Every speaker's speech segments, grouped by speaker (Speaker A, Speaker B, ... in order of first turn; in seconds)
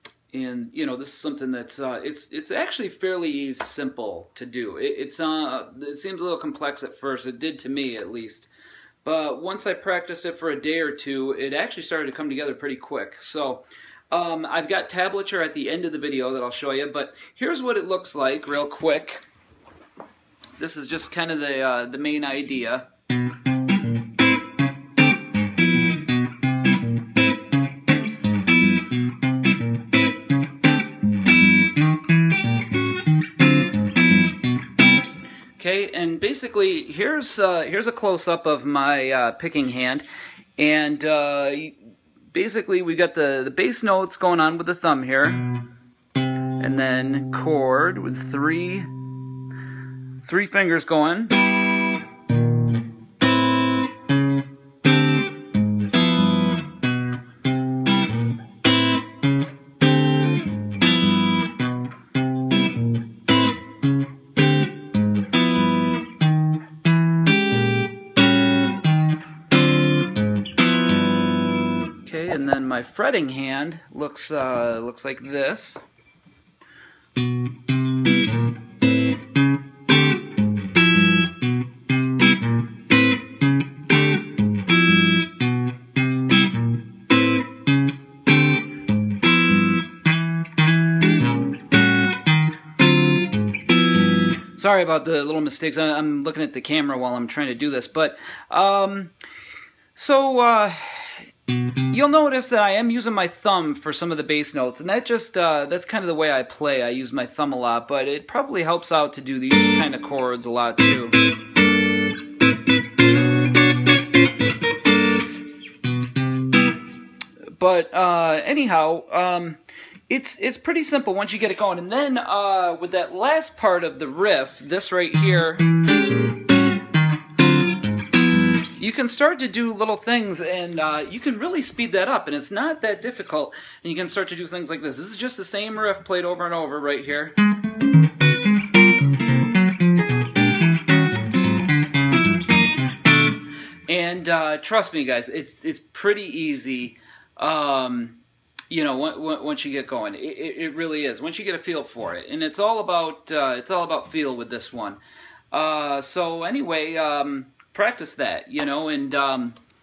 Speaker A: 0.3-8.5, 9.0-19.2, 20.6-22.9, 35.6-40.0, 40.6-41.8, 42.3-45.5, 46.6-48.9, 50.2-51.4, 72.0-75.8, 94.5-99.1, 100.0-101.2, 101.9-111.2, 117.6-125.7, 128.8-137.3, 143.9-148.2, 148.7-155.0, 155.5-159.6